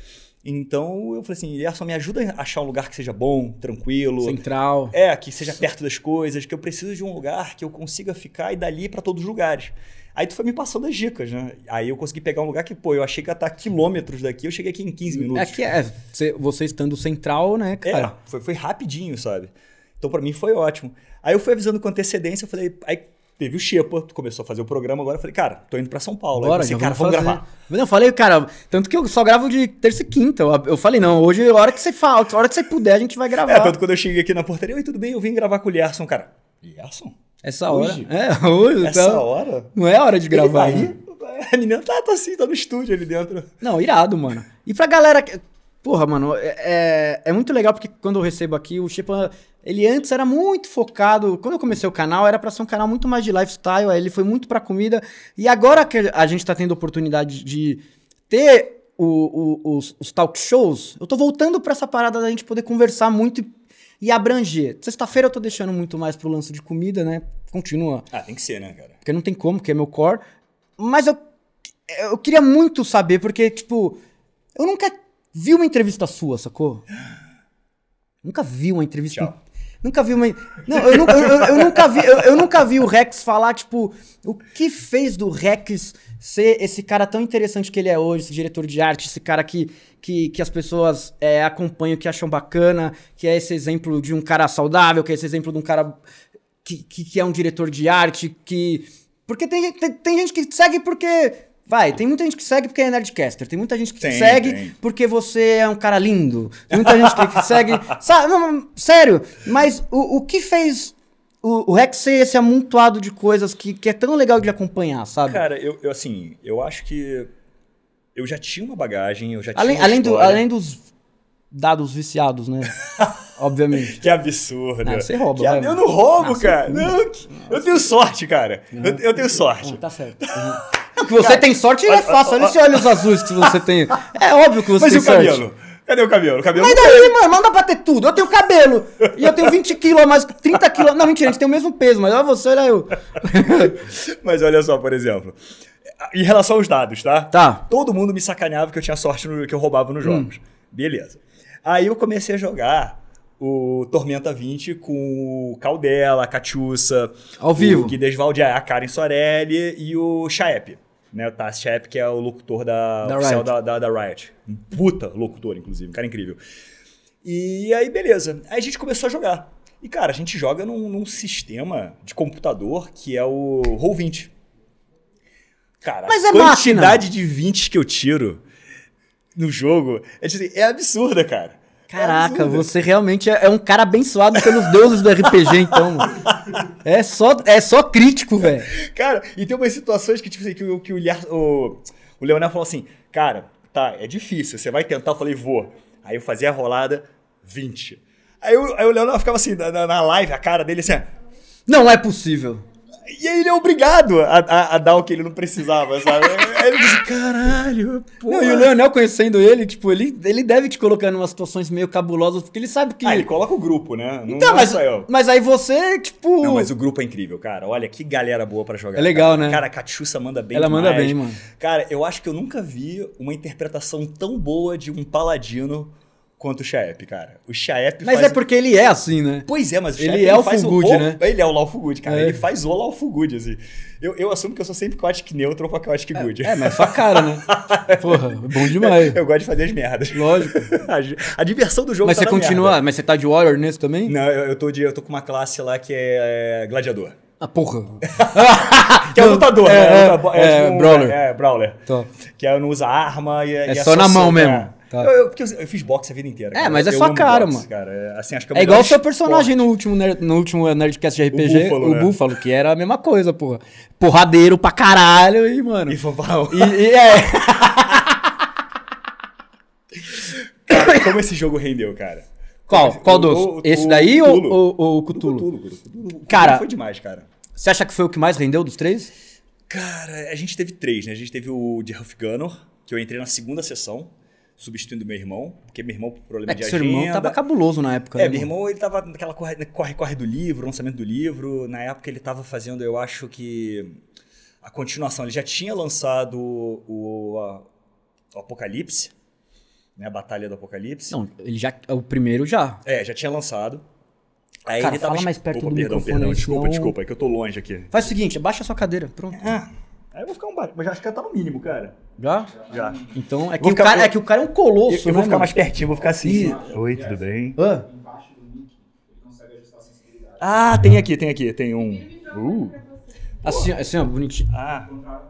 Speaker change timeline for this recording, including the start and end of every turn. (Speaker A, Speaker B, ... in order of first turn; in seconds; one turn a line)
Speaker A: 0.4-15.6
Speaker B: 4.2-5.0
Speaker B: 15.1-18.1
Speaker A: 17.9-27.4
Speaker B: 26.4-33.8
Speaker A: 33.5-37.2
Speaker B: 37.4-40.9
Speaker A: 37.7-38.1
Speaker A: 38.8-39.7
Speaker A: 40.3-43.5
Speaker B: 43.6-63.5
Speaker B: 64.0-68.1
Speaker A: 68.1-69.0
Speaker B: 69.0-70.2
Speaker B: 70.8-71.2
Speaker B: 71.9-74.0
Speaker B: 74.6-76.9
Speaker B: 78.2-96.0
Speaker A: 81.0-81.6
Speaker B: 96.6-115.4
Speaker A: 104.0-104.8
Speaker A: 106.7-107.8
Speaker A: 115.3-117.3
Speaker A: 118.2-120.5
Speaker B: 119.5-120.9
Speaker B: 121.5-124.0
Speaker A: 123.9-133.6
Speaker B: 124.8-127.7
Speaker B: 128.7-129.0
Speaker B: 129.6-135.4
Speaker A: 134.7-137.1
Speaker B: 136.6-143.8
Speaker A: 139.2-139.5
Speaker A: 143.6-145.4
Speaker A: 146.0-166.4
Speaker B: 147.3-147.6
Speaker B: 150.0-150.3
Speaker B: 157.4-158.0
Speaker B: 163.0-163.5
Speaker A: 167.2-174.3
Speaker A: 175.8-178.4
Speaker B: 176.1-177.0
Speaker A: 179.3-182.7
Speaker B: 181.9-186.2
Speaker A: 184.3-186.6
Speaker B: 186.8-188.7
Speaker A: 188.7-201.1
Speaker B: 201.7-202.6
Speaker A: 203.1-208.7
Speaker B: 208.3-213.3
Speaker A: 213.0-215.1
Speaker B: 214.3-216.7
Speaker A: 216.4-228.4
Speaker B: 219.0-219.6
Speaker B: 220.5-221.4
Speaker B: 228.0-231.2
Speaker A: 229.5-242.8
Speaker B: 232.1-232.4
Speaker B: 236.2-239.2
Speaker B: 240.1-240.7
Speaker B: 242.0-244.2
Speaker A: 244.1-247.2
Speaker B: 247.4-251.2
Speaker A: 248.1-259.6
Speaker B: 253.7-255.1
Speaker B: 256.5-257.6
Speaker B: 258.5-266.0
Speaker A: 261.3-262.2
Speaker A: 265.9-266.9
Speaker B: 266.5-268.4
Speaker A: 270.1-277.3
Speaker B: 272.7-275.5
Speaker B: 276.3-276.7
Speaker B: 277.6-279.1
Speaker A: 279.7-287.4
Speaker B: 286.5-288.5
Speaker A: 288.1-294.0
Speaker A: 294.6-297.7
Speaker A: 298.3-299.1
Speaker A: 300.0-301.2
Speaker B: 301.1-302.8
Speaker A: 302.9-303.8
Speaker A: 304.7-307.9
Speaker B: 304.8-307.0
Speaker B: 307.9-309.6
Speaker A: 309.3-312.0
Speaker B: 312.2-315.6
Speaker A: 312.6-314.2
Speaker A: 314.9-317.6
Speaker B: 316.2-316.6
Speaker B: 317.6-317.9
Speaker A: 320.4-322.9
Speaker B: 323.4-324.5
Speaker A: 324.5-325.0